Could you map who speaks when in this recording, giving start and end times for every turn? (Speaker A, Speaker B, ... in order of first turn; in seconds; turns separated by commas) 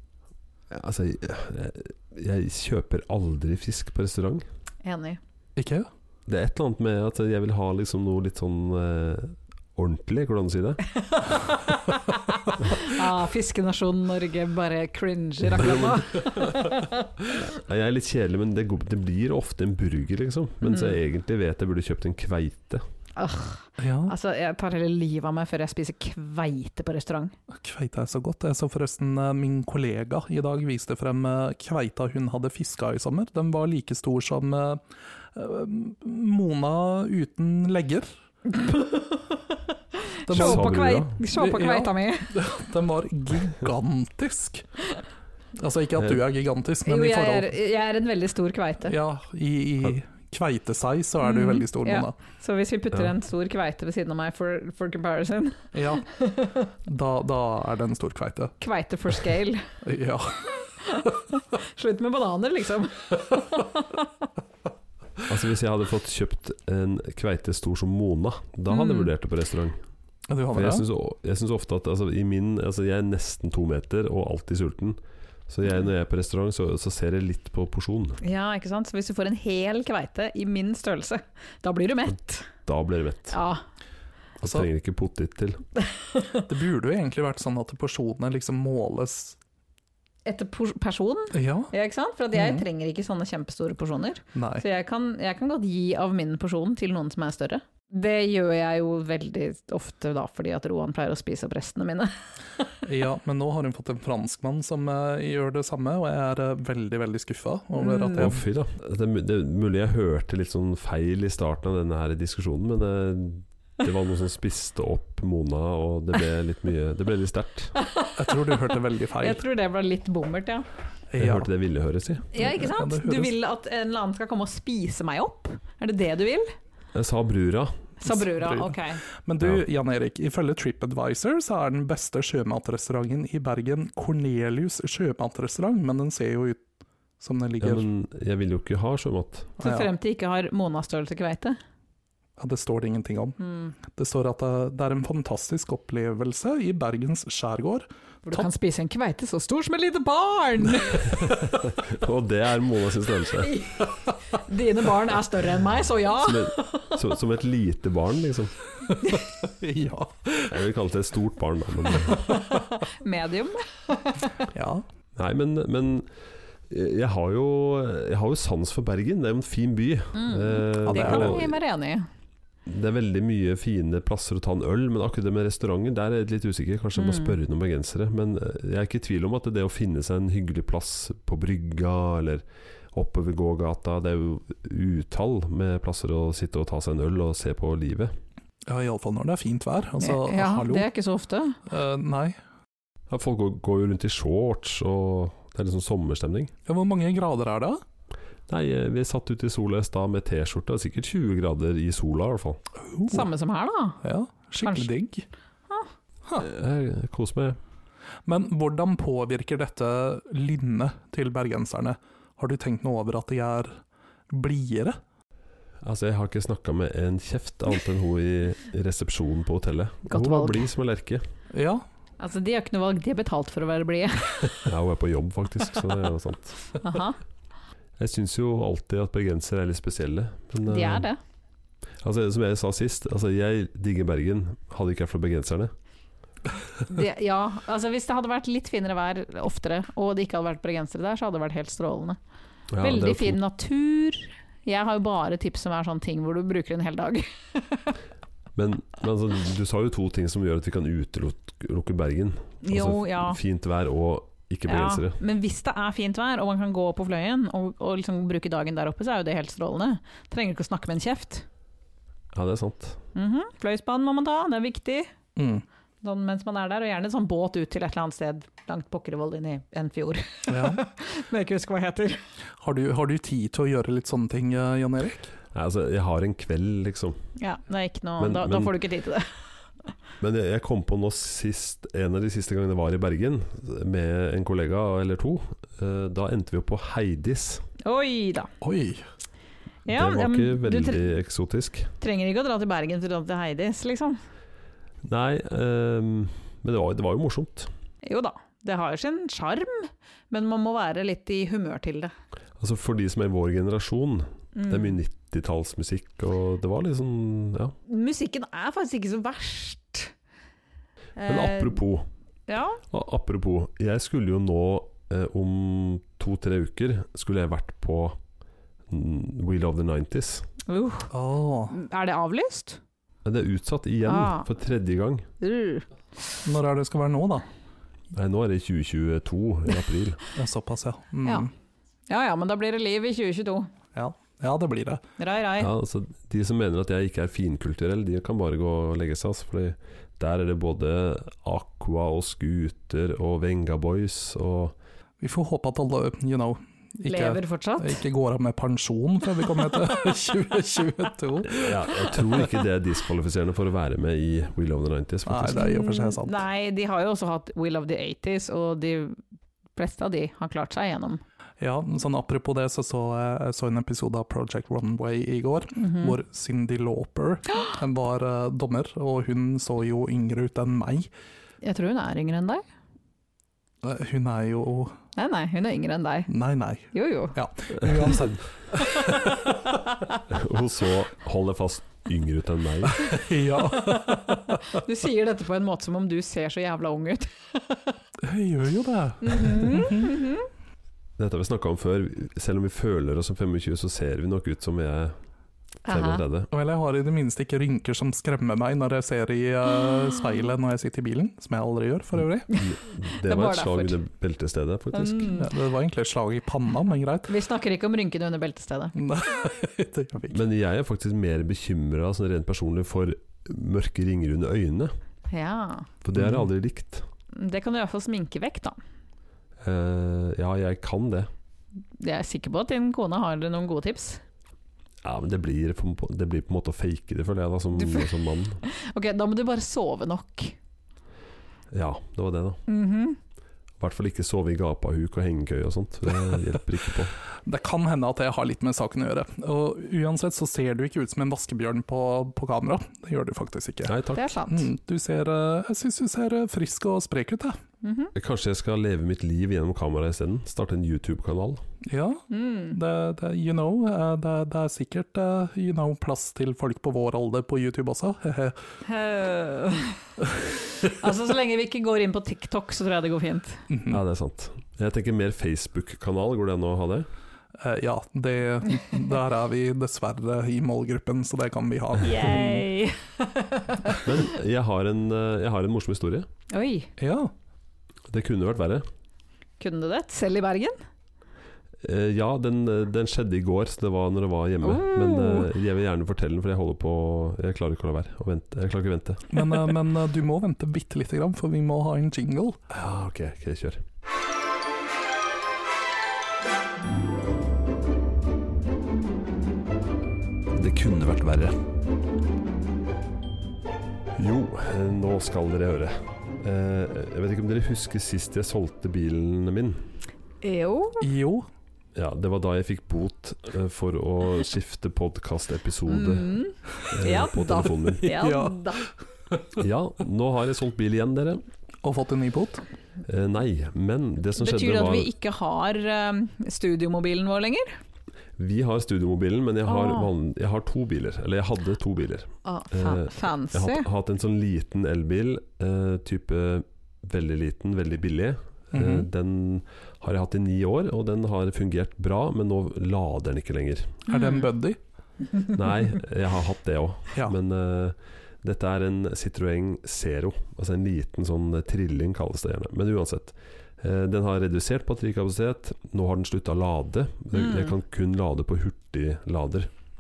Speaker A: 0.7-4.5, Speaker B: 4.8-5.2, Speaker C: 5.6-5.9, Speaker A: 6.3-10.8, Speaker B: 11.0-17.1, Speaker A: 15.6-16.6, Speaker A: 17.3-22.8, Speaker B: 20.6-21.0, Speaker B: 23.2-27.3, Speaker C: 23.8-24.1, Speaker C: 27.5-38.1, Speaker B: 38.5-39.2, Speaker B: 40.0-42.5, Speaker C: 40.3-40.7, Speaker A: 40.3-41.2, Speaker C: 41.3-44.7, Speaker C: 45.6-47.5, Speaker B: 46.9-49.0, Speaker C: 48.9-52.1, Speaker B: 51.2-56.7, Speaker C: 55.7-56.0, Speaker C: 56.9-58.5, Speaker B: 58.6-59.7, Speaker C: 59.8-60.5, Speaker B: 60.5-64.1, Speaker A: 65.2-69.8, Speaker B: 68.7-69.1, Speaker C: 70.3-70.9, Speaker A: 70.5-78.2, Speaker B: 78.2-82.5, Speaker A: 82.7-83.3, Speaker B: 83.3-83.6, Speaker A: 84.4-85.6, Speaker B: 86.0-86.5, Speaker C: 86.5-89.4, Speaker B: 90.2-102.6, Speaker C: 91.3-91.7, Speaker C: 92.3-92.7, Speaker C: 94.3-94.6, Speaker C: 102.8-108.5, Speaker B: 107.8-108.2, Speaker A: 108.1-117.8, Speaker B: 117.8-120.7, Speaker C: 118.2-119.4, Speaker C: 121.1-121.5, Speaker A: 121.2-122.3, Speaker B: 122.3-126.5, Speaker C: 122.4-123.3, Speaker A: 126.9-127.7, Speaker B: 128.0-129.0, Speaker C: 128.1-136.6, Speaker C: 137.2-137.8, Speaker A: 137.6-139.6, Speaker B: 139.6-141.6, Speaker C: 139.6-139.9, Speaker C: 142.4-143.4, Speaker B: 143.4-143.7, Speaker C: 143.9-148.4, Speaker B: 148.2-151.2, Speaker A: 151.0-153.7, Speaker B: 153.4-157.0, Speaker A: 156.2-158.6, Speaker C: 158.9-160.6, Speaker A: 160.5-162.3, Speaker C: 161.9-162.6, Speaker B: 162.3-164.3, Speaker C: 164.5-164.8, Speaker A: 165.2-166.1, Speaker A: 166.7-171.5, Speaker B: 170.2-172.1, Speaker C: 170.8-171.4, Speaker A: 172.7-188.1, Speaker B: 177.0-177.4, Speaker C: 188.7-190.9, Speaker B: 190.0-191.6, Speaker C: 191.7-192.4, Speaker A: 193.1-196.5, Speaker C: 196.7-197.8, Speaker A: 198.5-202.6, Speaker C: 202.8-203.3, Speaker B: 203.1-204.0, Speaker C: 204.0-205.3, Speaker B: 204.6-204.9, Speaker A: 206.4-207.6, Speaker C: 208.2-215.0, Speaker A: 215.8-221.2, Speaker B: 220.1-220.7, Speaker C: 221.5-221.8, Speaker B: 222.2-224.7, Speaker A: 224.7-226.8, Speaker B: 226.8-227.2, Speaker A: 228.0-231.1, Speaker B: 230.7-231.2, Speaker A: 232.0-235.7, Speaker B: 236.9-242.2, Speaker A: 242.7-243.4, Speaker B: 242.8-247.9, Speaker A: 248.6-255.2, Speaker B: 252.6-253.4, Speaker B: 254.7-261.4, Speaker A: 262.3-263.0, Speaker B: 263.1-265.1, Speaker C: 265.4-265.6, Speaker B: 266.0-272.2, Speaker C: 270.5-270.8, Speaker C: 272.6-275.3, Speaker A: 275.5-277.2, Speaker B: 277.4-279.3, Speaker A: 278.2-278.8, Speaker A: 280.2-287.7, Speaker B: 287.8-288.5, Speaker C: 288.6-289.1, Speaker B: 289.9-291.1, Speaker A: 289.9-291.9, Speaker B: 292.0-294.2, Speaker A: 295.0-297.7, Speaker B: 298.0-302.1, Speaker A: 302.6-307.8, Speaker B: 304.6-305.0, Speaker B: 307.9-310.1, Speaker B: 311.2-311.8, Speaker A: 311.3-312.1, Speaker B: 312.5-312.8, Speaker A: 312.9-318.2, Speaker A: 318.9-320.5, Speaker B: 320.7-321.1, Speaker C: 321.1-321.8, Speaker B: 321.7-322.8, Speaker A: 323.2-325.3, Speaker B: 324.1-324.5, Speaker B: 325.4-325.9, Speaker C: 326.4-327.5, Speaker A: 328.1-330.2, Speaker C: 330.4-331.5, Speaker B: 331.2-331.5, Speaker B: 332.1-333.7, Speaker C: 333.9-335.0, Speaker B: 335.2-335.7, Speaker A: 335.6-344.8, Speaker C: 345.2-352.5, Speaker B: 347.1-348.0, Speaker A: 351.6-355.7, Speaker C: 355.3-356.4, Speaker B: 355.5-359.2, Speaker B: 359.8-361.2, Speaker C: 361.6-371.1, Speaker B: 365.8-366.2, Speaker B: 371.6-372.6, Speaker C: 373.8-375.0, Speaker B: 375.1-376.3, Speaker C: 376.3-379.7, Speaker B: 376.9-377.4, Speaker A: 380.3-383.2, Speaker C: 383.0-384.7, Speaker B: 384.7-387.3, Speaker C: 388.2-390.2, Speaker B: 389.2-390.5, Speaker A: 391.2-395.2, Speaker B: 395.9-396.2, Speaker A: 395.9-396.5, Speaker C: 396.5-402.5, Speaker B: 402.5-404.0, Speaker A: 402.5-405.3, Speaker B: 404.9-405.5, Speaker C: 405.4-407.3, Speaker B: 407.3-408.9, Speaker C: 408.9-410.4, Speaker A: 410.3-414.9, Speaker B: 415.3-415.9, Speaker A: 416.0-417.1, Speaker C: 416.1-416.5, Speaker B: 417.3-418.8, Speaker A: 419.6-421.3, Speaker B: 422.0-424.2, Speaker A: 425.0-428.6, Speaker B: 427.8-430.6, Speaker A: 431.7-432.6, Speaker B: 432.7-433.2, Speaker A: 433.8-437.1, Speaker C: 437.4-443.9, Speaker A: 443.9-444.3, Speaker B: 444.1-444.7, Speaker C: 444.5-447.6, Speaker B: 447.8-448.1, Speaker A: 448.1-451.6, Speaker C: 451.8-458.6, Speaker B: 452.3-452.8, Speaker B: 458.9-460.1, Speaker B: 460.7-463.6, Speaker C: 463.7-464.0, Speaker A: 463.9-467.1, Speaker C: 467.6-472.6, Speaker B: 472.0-474.0, Speaker A: 473.9-476.3, Speaker B: 476.5-476.9, Speaker C: 477.0-477.3, Speaker A: 478.1-478.9, Speaker B: 479.6-480.8, Speaker A: 481.8-489.4, Speaker B: 484.6-485.5, Speaker C: 489.3-492.6, Speaker A: 492.7-493.8, Speaker A: 500.5-501.6, Speaker A: 504.2-509.8, Speaker B: 510.4-511.1, Speaker C: 511.0-511.5, Speaker A: 511.9-518.1, Speaker B: 515.9-518.9, Speaker C: 518.0-518.7, Speaker A: 519.5-521.4, Speaker C: 521.8-522.6, Speaker A: 523.0-525.1, Speaker B: 524.4-527.8, Speaker A: 528.4-544.0, Speaker B: 529.6-530.1, Speaker B: 532.5-533.9, Speaker C: 538.7-539.1, Speaker C: 544.1-544.8, Speaker B: 544.1-544.5, Speaker A: 545.5-559.7, Speaker B: 557.4-557.7